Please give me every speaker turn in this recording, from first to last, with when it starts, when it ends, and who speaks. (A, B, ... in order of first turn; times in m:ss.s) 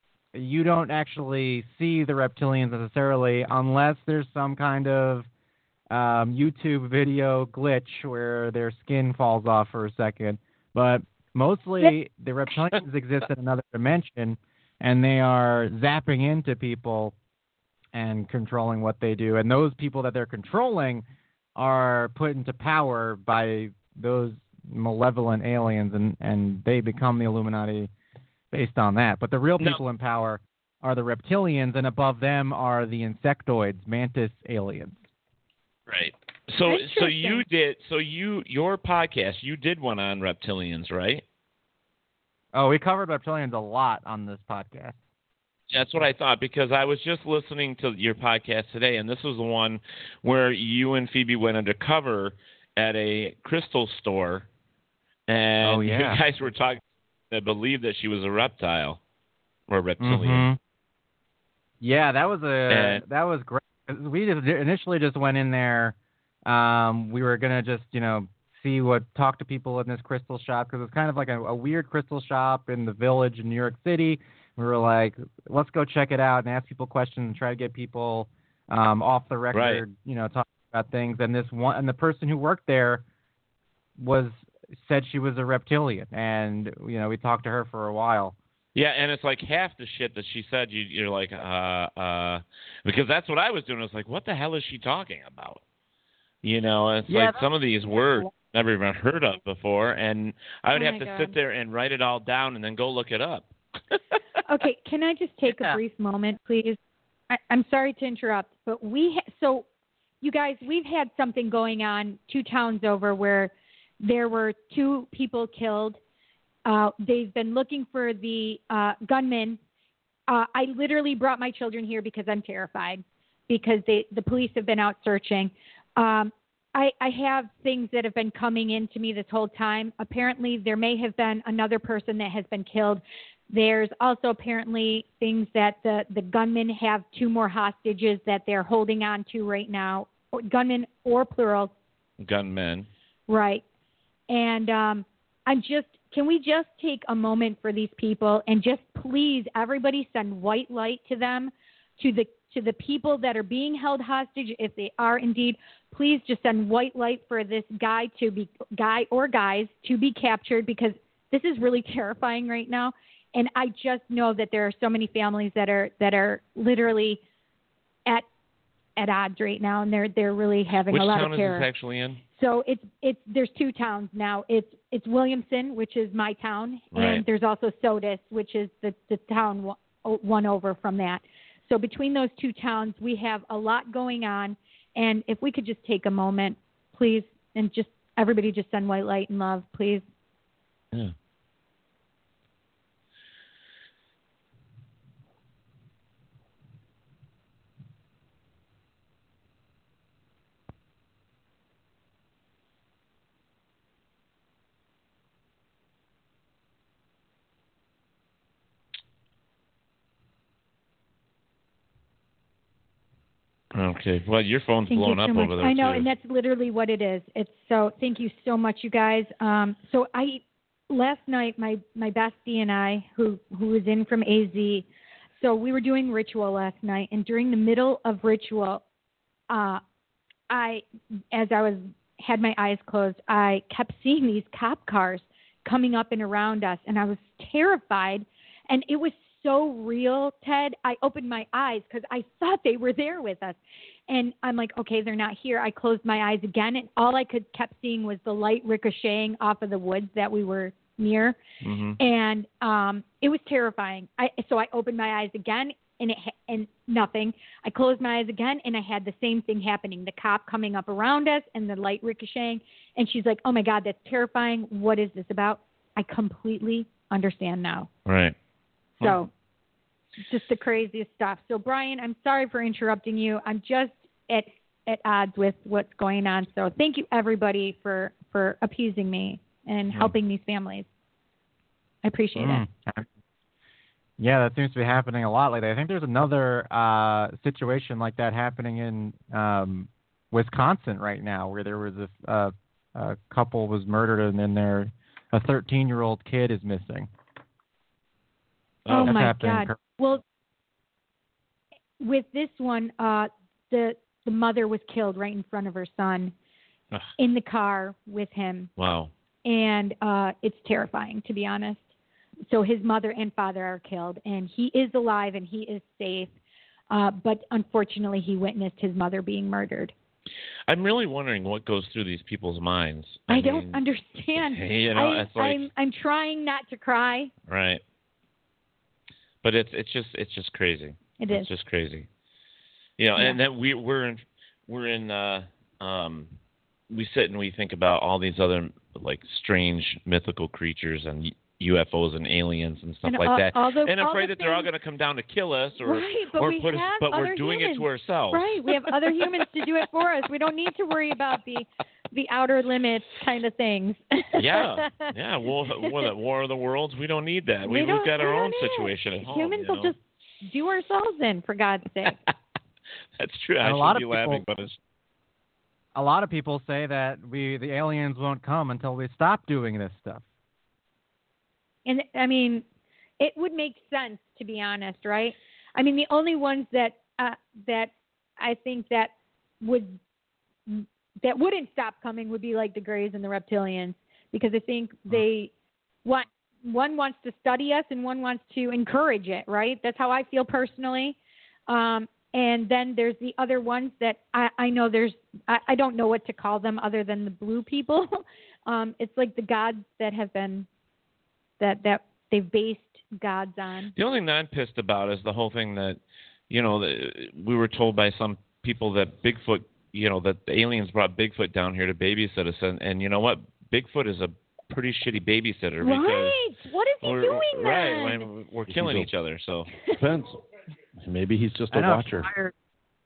0:00.3-0:05.3 A
0:05.9-0:17.1 A
0:17.9-0:21.0 A
0:21.6-0:27.9 A
0:28.5-0:35.0 A
0:35.9-0:41.2 B
0:36.7-0:37.4 C
0:42.5-0:45.0 A
0:45.7-0:54.5 B
0:55.3-0:59.0 B
0:55.6-0:56.2 A
0:59.7-1:00.5 B
1:00.0-1:00.6 A
1:01.8-1:23.0 A
1:02.7-1:03.0 B
1:19.5-1:19.8 B
1:24.0-1:28.4 A
1:28.7-1:35.6 B
1:36.4-1:43.9 B
1:37.1-1:38.3 A
1:40.7-1:41.3 C
1:44.4-1:46.8 C
1:45.5-1:45.8 A
1:47.3-1:49.7 C
1:50.2-1:56.0 C
1:56.6-1:59.6 C
2:00.3-2:21.7 C
2:22.2-2:22.9 B
2:23.3-2:23.6 C
2:24.3-2:47.2 C
2:49.0-2:51.6 C
2:50.9-2:52.2 B
2:52.4-3:10.0 C
2:56.9-2:57.2 B
3:33.7-3:36.1 B
3:34.9-3:44.9 C
3:45.4-3:48.8 C
3:49.5-3:49.8 C
3:50.5-4:11.4 C
4:11.6-4:12.0 B
4:12.0-4:27.9 C
4:28.0-4:28.3 B
4:29.0-4:29.3 C
4:30.3-4:40.9 C
4:42.0-4:42.6 C
4:42.4-4:43.1 A
4:44.2-4:57.1 A
4:58.8-4:59.3 B
4:58.9-4:59.8 A
4:58.9-5:00.2 C
5:02.0-5:06.3 C
5:07.2-5:08.7 C
5:08.8-5:09.1 B
5:09.4-5:11.8 C
5:12.5-5:16.3 C
5:16.9-5:19.9 C
5:20.7-5:23.8 B
5:23.3-5:27.3 C
5:24.5-5:25.7 B
5:27.5-5:27.8 B
5:29.4-5:32.1 B
5:31.2-5:31.5 C
5:33.0-5:36.3 B
5:36.9-5:49.2 B
5:43.0-5:44.7 C
5:45.8-5:55.1 C
5:54.4-5:59.9 B
5:57.6-6:02.2 C
6:03.2-6:04.8 B
6:03.6-6:04.4 A
6:05.9-6:10.2 A
6:11.8-6:12.6 C
6:13.2-6:20.0 C
6:20.7-6:25.5 C
6:26.0-6:31.2 C
6:31.7-6:40.7 C
6:41.6-6:43.9 C
6:44.0-6:56.4 B
6:55.8-6:58.2 C
6:57.0-6:59.7 B
6:58.7-6:59.1 D
6:59.9-7:00.4 D
7:01.0-7:02.3 D
7:01.7-7:02.5 A